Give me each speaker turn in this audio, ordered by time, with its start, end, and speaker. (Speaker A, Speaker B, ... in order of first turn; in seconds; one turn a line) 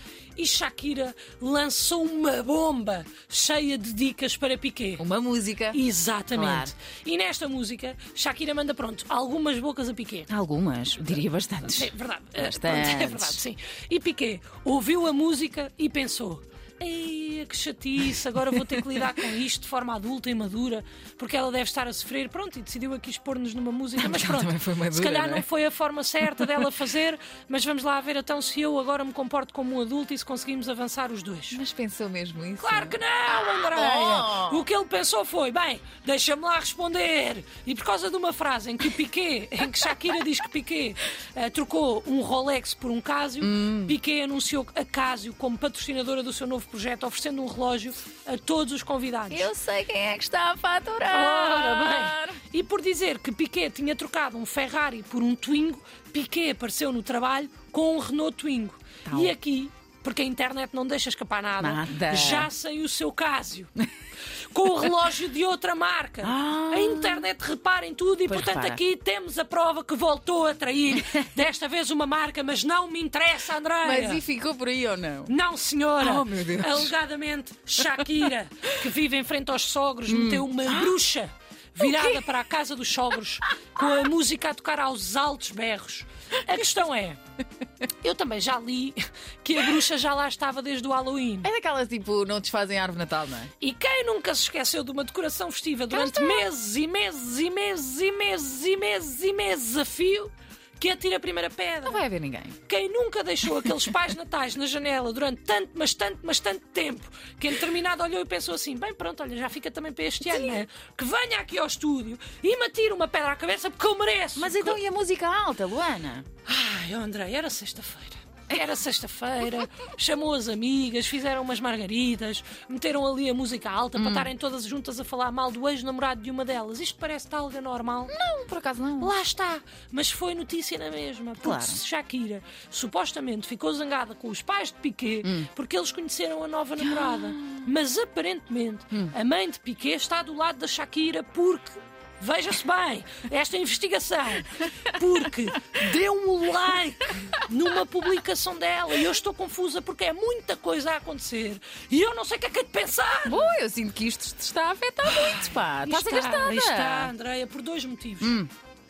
Speaker A: 0.4-5.1
Speaker B: 5.0-5.8
Speaker A: 5.7-10.3
Speaker B: 6.3-6.7
Speaker B: 10.3-13.4
Speaker A: 11.7-31.6
Speaker B: 24.0-25.5
Speaker B: 31.5-33.0
Speaker A: 32.6-49.5
Speaker B: 33.6-34.7
Speaker B: 43.4-44.0
Speaker B: 49.3-52.4
Speaker A: 51.1-63.7
Speaker B: 59.1-59.4
Speaker B: 61.6-62.5
Speaker A: 64.5-74.2
Speaker B: 66.2-67.3
Speaker B: 68.3-68.8
Speaker B: 73.8-75.3
Speaker A: 75.3-87.2
Speaker B: 76.0-76.9
Speaker B: 80.1-81.0
Speaker B: 81.8-82.2
Speaker A: 88.0-91.5
Speaker B: 91.4-93.5
Speaker A: 93.6-102.0
Speaker B: 95.9-96.5
Speaker B: 101.9-102.6
Speaker A: 102.7-114.8
Speaker B: 110.3-110.5
Speaker B: 114.4-116.2
Speaker A: 116.5-128.1
Speaker B: 124.0-124.3
Speaker B: 128.1-129.1
Speaker A: 129.0-153.5
Speaker B: 131.4-131.8
Speaker B: 136.8-137.7
Speaker B: 153.2-157.1
Speaker A: 155.1-158.4
Speaker B: 158.2-158.5